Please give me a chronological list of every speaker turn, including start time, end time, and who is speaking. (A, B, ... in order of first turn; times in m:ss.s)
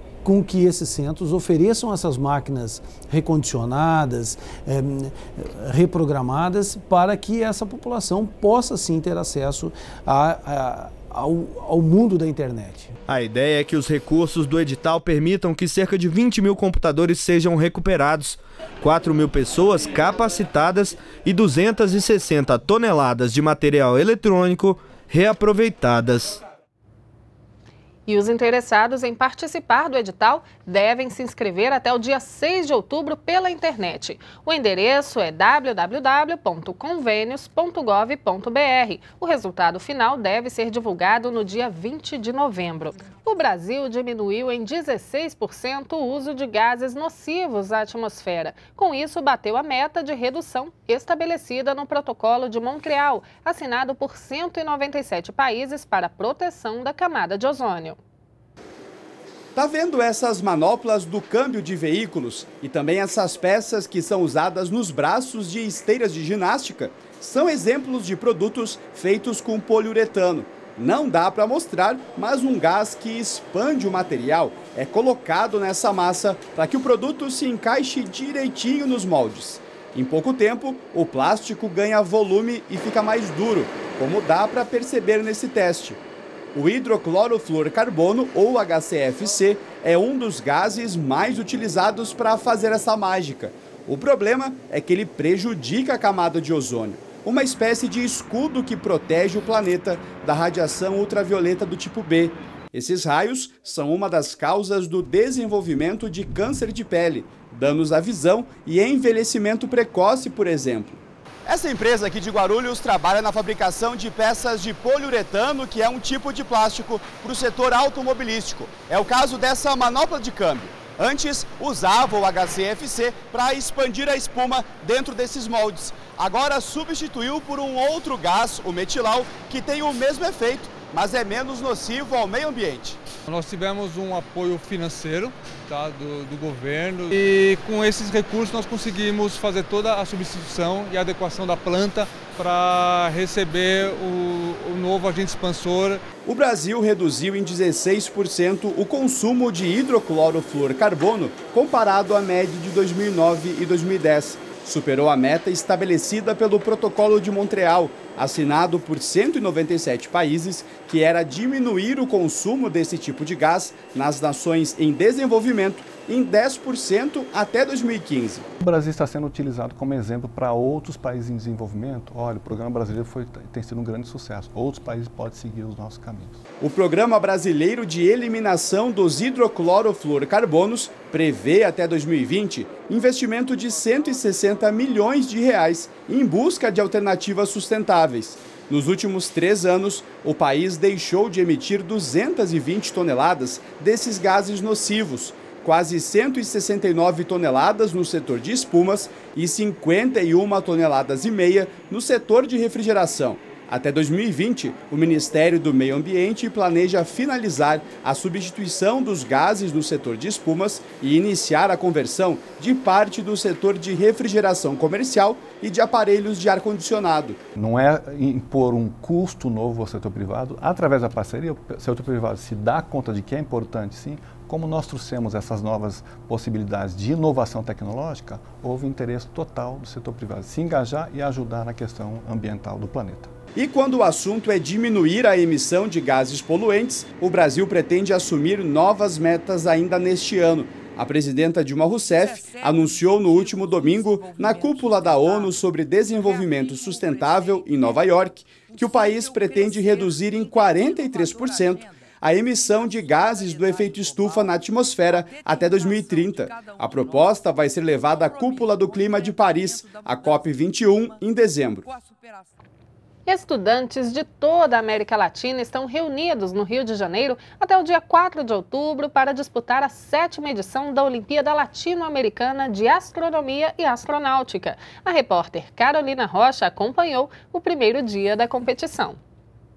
0:00.2-0:12.9 A
0:13.1-0:26.4 B
0:28.1-0:58.0 C
0:59.5-1:26.0 D
1:26.5-2:13.0 D
2:13.3-2:26.0 E
2:26.2-2:48.5 D
2:48.6-2:56.4 F
2:56.6-3:37.4 D
3:37.5-3:53.3 F
3:53.5-4:21.9 D
4:23.2-4:39.2 C